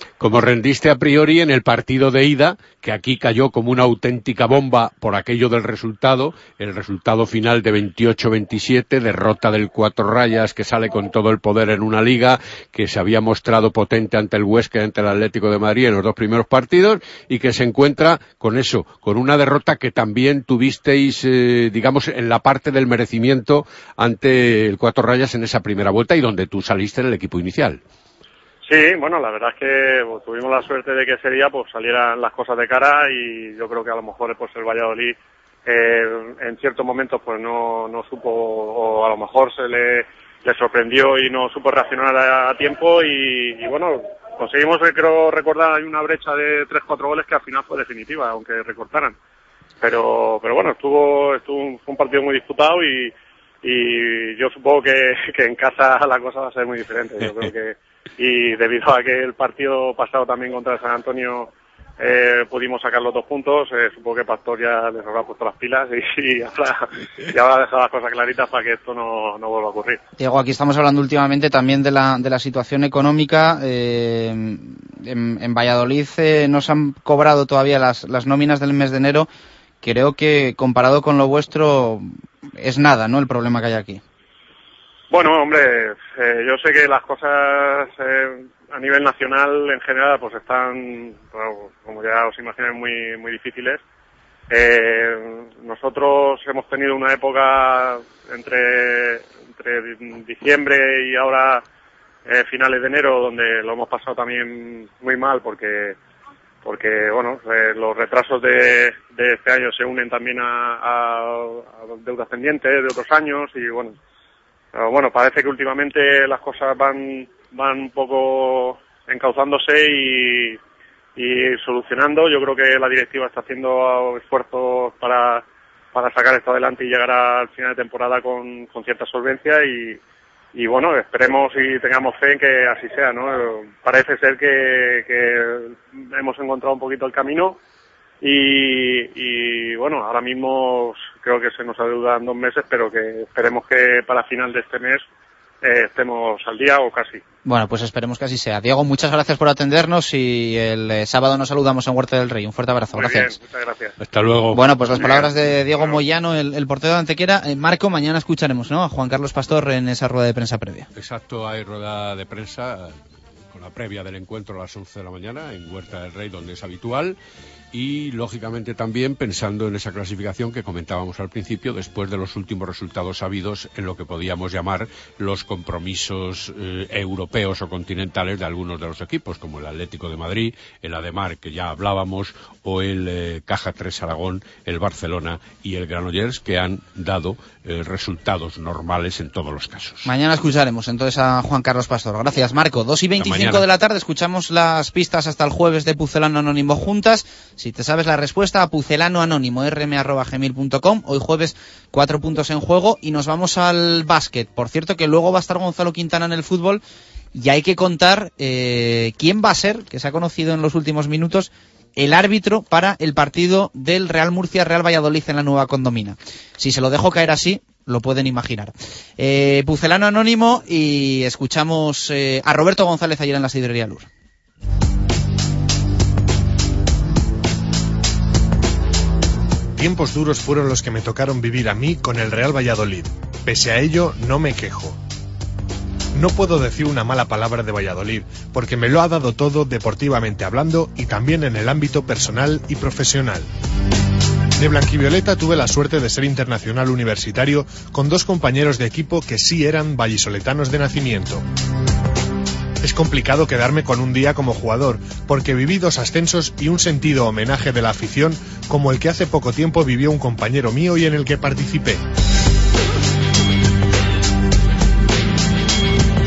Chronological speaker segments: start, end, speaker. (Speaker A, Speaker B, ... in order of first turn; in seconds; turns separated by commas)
Speaker A: 0.2-27.8, Speaker B: 28.7-49.2, Speaker B: 49.8-70.0, Speaker C: 70.2-79.3, Speaker C: 79.8-82.1, Speaker C: 82.6-84.0, Speaker B: 85.1-93.8, Speaker B: 94.5-101.6, Speaker B: 102.3-106.0, Speaker B: 106.7-114.0, Speaker B: 114.7-120.6, Speaker B: 121.2-130.0, Speaker B: 130.6-137.6, Speaker B: 138.2-145.0, Speaker B: 145.6-147.2, Speaker C: 147.4-153.3, Speaker B: 152.9-154.0, Speaker A: 154.0-154.7, Speaker C: 154.5-160.9, Speaker B: 155.8-156.0, Speaker A: 161.0-163.0, Speaker A: 163.5-167.2, Speaker A: 167.7-190.1, Speaker C: 190.1-206.8, Speaker A: 193.2-193.7, Speaker C: 207.3-224.1, Speaker D: 229.8-235.0, Speaker D: 236.1-243.5, Speaker D: 244.6-251.4, Speaker D: 252.8-262.0